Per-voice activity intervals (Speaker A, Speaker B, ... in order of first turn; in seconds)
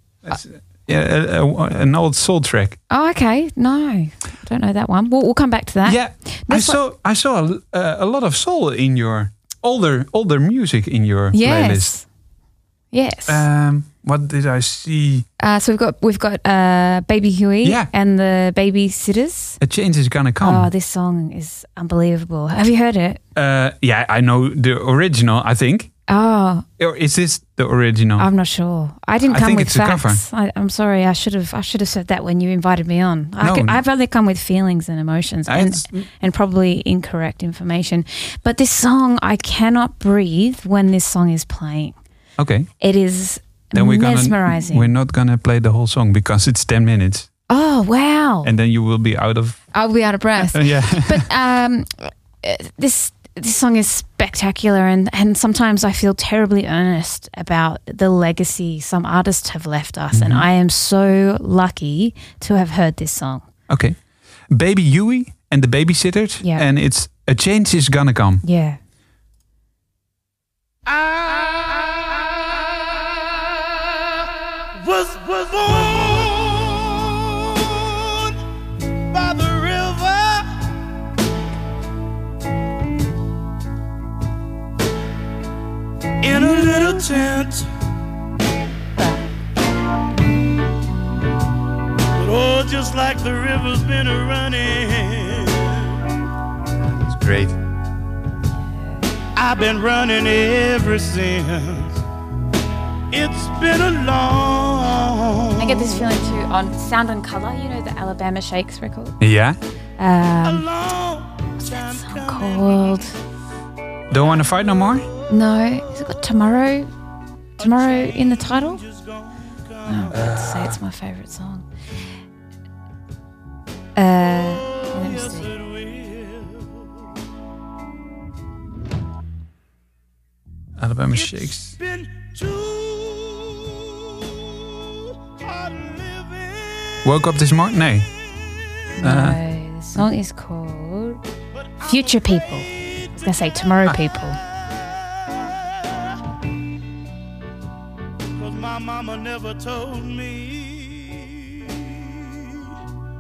Speaker A: 0.3-2.8, 5.8-12.0, 13.3-15.3, 17.6-17.9, 19.6-20.7, 23.4-25.9, 26.8-28.3, 29.3-30.2, 33.4-33.8, 35.5-36.1, 42.4-42.7, 43.7-47.3, 48.4-49.7, 50.4-51.3, 60.1-60.5, 63.7-64.0, 64.5-68.4, 96.9-97.6, 109.2-109.6, 114.1-115.1, 130.8-131.7, 137.0-138.1, 139.0-139.4
Speaker B: 2.9-6.8, 11.3-12.1, 12.9-13.4, 15.4-19.6, 20.4-23.2, 26.1-26.7, 28.2-42.0, 42.8-44.9, 47.5-48.5, 49.7-63.5, 68.4-68.8, 86.4-87.2, 105.6-109.2, 110.0-110.7, 111.6-113.2, 115.3-116.9, 117.6-118.8, 119.9-121.7, 124.0-125.5, 139.0-141.2, 141.8-142.7, 143.2-144.4
Speaker C: 70.9-72.1, 74.8-78.4, 79.1-80.6, 86.2-87.7, 92.1-96.0, 99.3-102.0, 103.1-106.0, 110.4-113.1, 117.6-120.5, 124.7-126.9, 131.1-137.1, 141.6-143.2, 144.6-146.2, 148.4-152.7